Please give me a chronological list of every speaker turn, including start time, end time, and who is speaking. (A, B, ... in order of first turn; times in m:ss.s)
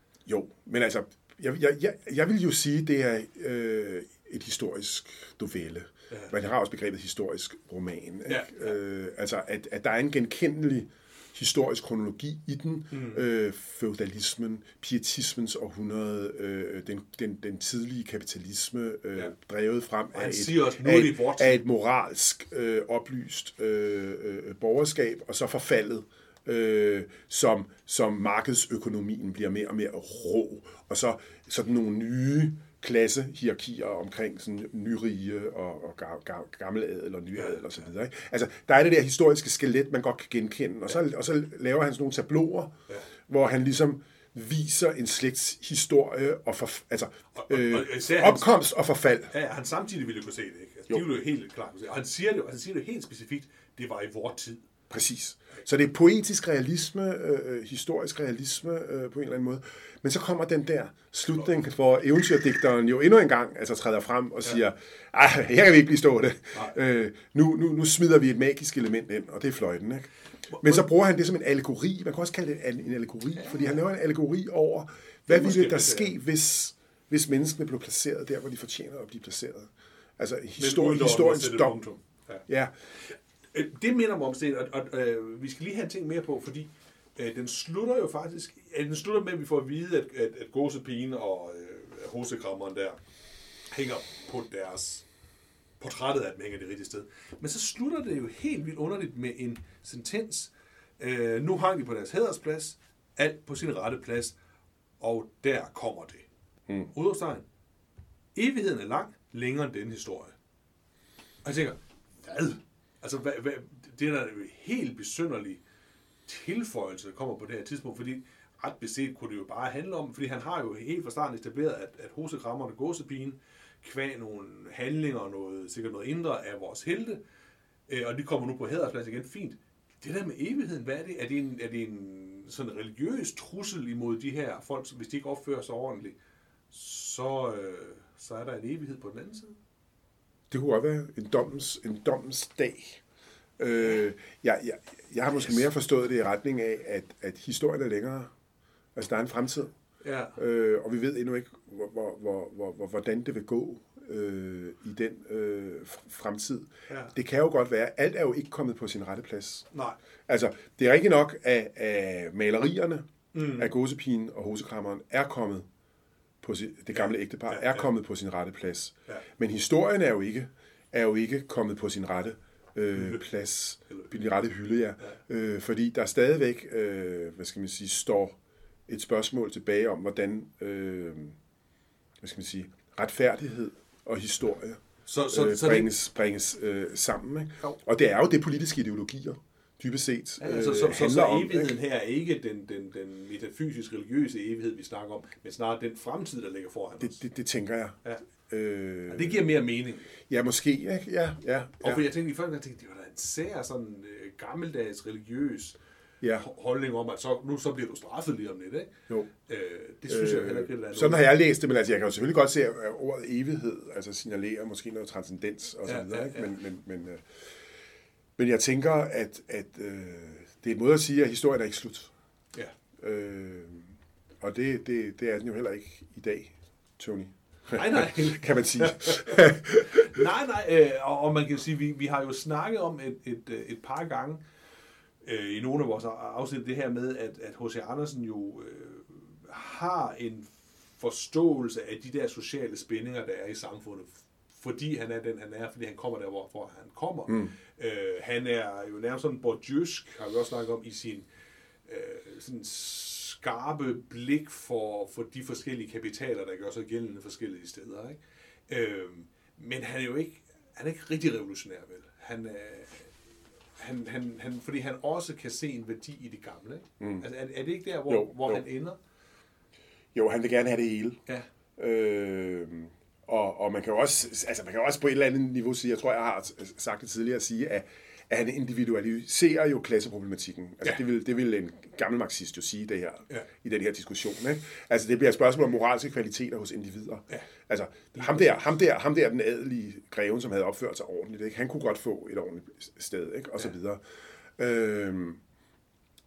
0:00.3-0:42.7 A
0:08.3-0:08.8 B
0:12.9-0:13.2 B
0:20.1-0:21.6 B
0:37.4-0:37.7 B
0:43.3-0:49.3 A
0:47.4-0:48.5 B
0:49.3-0:54.6 B
0:54.9-1:21.8 A
1:10.5-1:10.9 B
1:13.4-1:13.8 B
1:15.3-1:16.2 B
1:20.6-1:22.4 B
1:22.5-1:22.7 A
1:23.1-1:33.0 B
1:33.7-1:35.1 B
1:35.8-1:44.4 B
1:45.0-1:46.3 B
1:46.9-1:47.5 B
1:48.4-1:50.4 B
1:51.4-1:55.6 B
1:56.3-2:07.2 B
2:07.9-2:16.2 B
2:16.7-2:19.6 B
2:20.5-2:23.0 A
2:23.6-2:28.3 A
2:23.8-2:24.0 B
2:29.0-2:29.7 A
2:30.0-2:30.4 B
2:30.4-2:39.7 A
2:36.9-2:37.1 B
2:39.7-2:40.0 B
2:40.3-2:45.7 A
2:43.3-2:43.7 B
2:46.4-3:01.4 A
2:46.9-2:47.9 B
2:53.0-2:53.2 B
3:02.2-3:11.8 A
3:05.1-3:05.9 B
3:10.4-3:17.2 B
3:17.0-3:19.6 A
3:19.1-3:20.1 B
3:20.2-3:22.0 A
3:21.8-3:25.8 B
3:26.3-3:31.4 B
3:30.1-3:37.2 A
3:35.8-3:36.6 B
3:38.4-3:42.1 A
3:43.0-3:50.2 A
3:47.7-3:54.4 B
3:55.2-4:11.3 B
4:11.9-4:23.1 B
4:23.8-4:29.0 B
4:27.0-4:27.3 A
4:28.1-4:28.6 A
4:30.2-4:31.2 A
4:31.8-4:54.0 A
4:54.6-4:55.4 A